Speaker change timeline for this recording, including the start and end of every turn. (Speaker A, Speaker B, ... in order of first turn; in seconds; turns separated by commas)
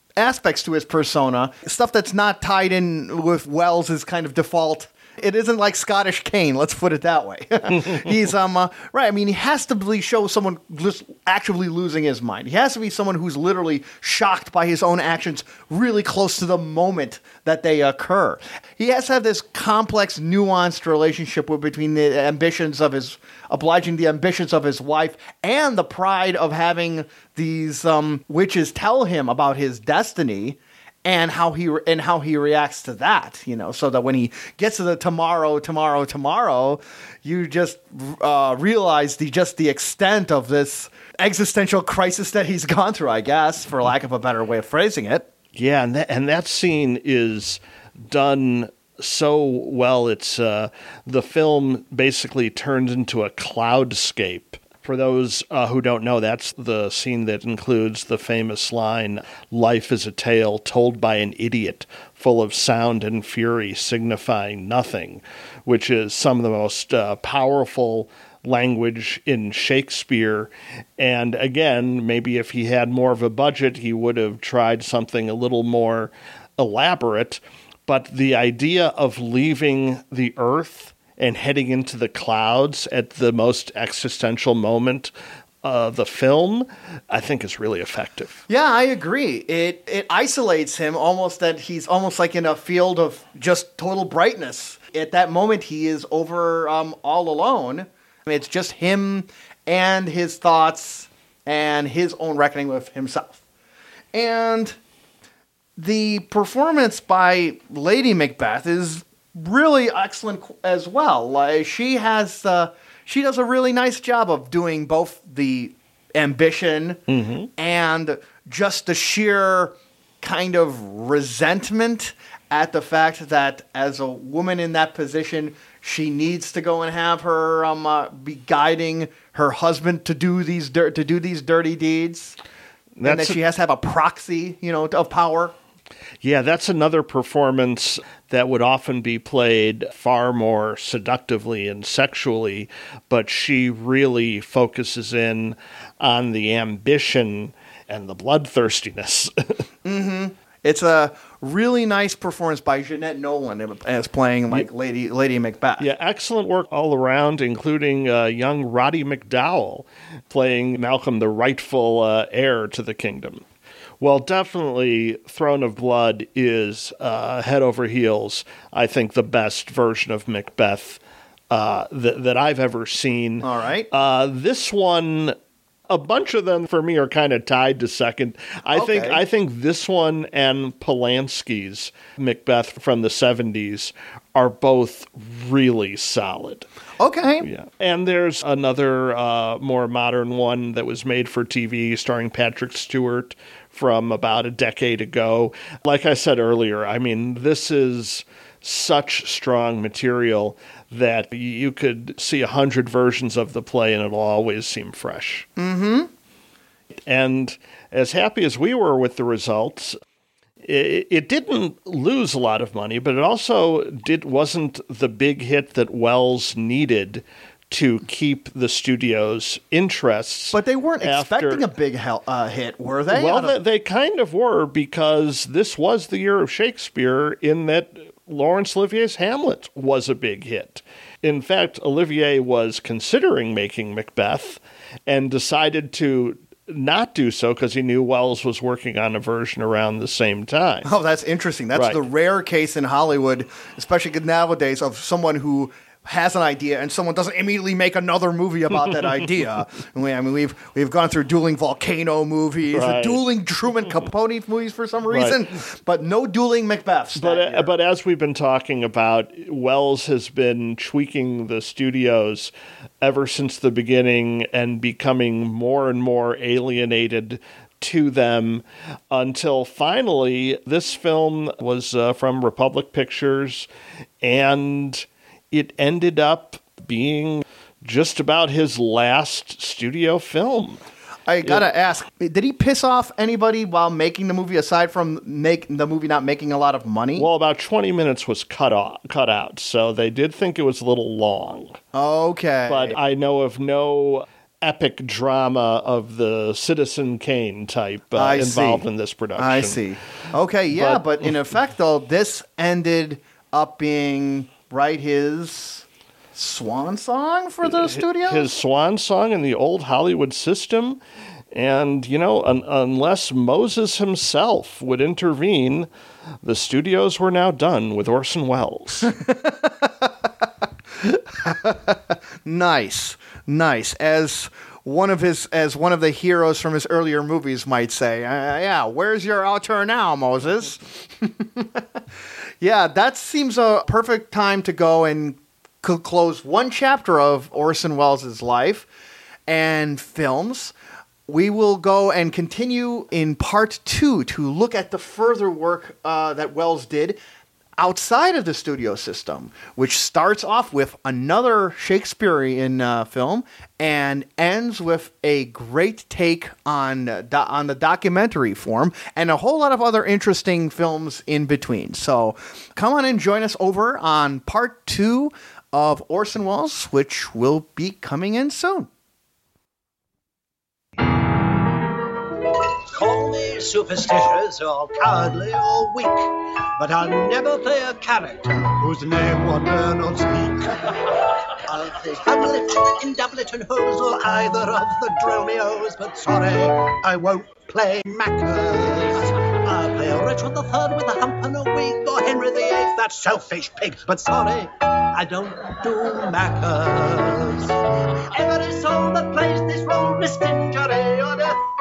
Speaker A: 0.2-45.3, Speaker B: 45.5-85.1, Speaker B: 85.6-88.4, Speaker A: 88.5-103.4, Speaker A: 104.1-104.8, Speaker A: 105.8-117.0, Speaker B: 117.1-117.5, Speaker A: 117.6-132.4, Speaker B: 133.0-133.4, Speaker A: 133.0-135.5, Speaker B: 136.2-149.6, Speaker A: 149.8-155.9, Speaker B: 155.8-163.4, Speaker B: 164.0-171.0, Speaker B: 171.5-175.3, Speaker A: 173.4-173.9, Speaker B: 175.9-186.7, Speaker A: 178.7-179.2, Speaker A: 187.0-187.4, Speaker B: 187.4-205.5, Speaker A: 205.6-206.1, Speaker B: 207.1-209.9, Speaker B: 210.6-221.7, Speaker A: 220.5-223.6, Speaker B: 223.1-240.9, Speaker A: 240.8-257.7, Speaker B: 252.7-253.2, Speaker B: 255.1-255.4, Speaker B: 257.1-273.7, Speaker B: 274.2-280.8, Speaker A: 281.3-287.3, Speaker B: 287.1-291.8, Speaker A: 291.9-293.0, Speaker B: 292.7-299.8, Speaker A: 298.1-298.8, Speaker A: 299.4-308.5, Speaker B: 300.7-301.0, Speaker B: 307.6-311.0, Speaker B: 311.5-315.9, Speaker B: 316.4-319.1, Speaker A: 319.0-320.3, Speaker A: 321.0-332.0, Speaker A: 332.6-338.9, Speaker A: 339.5-340.7, Speaker A: 341.3-347.2, Speaker A: 347.8-368.9, Speaker C: 372.9-401.6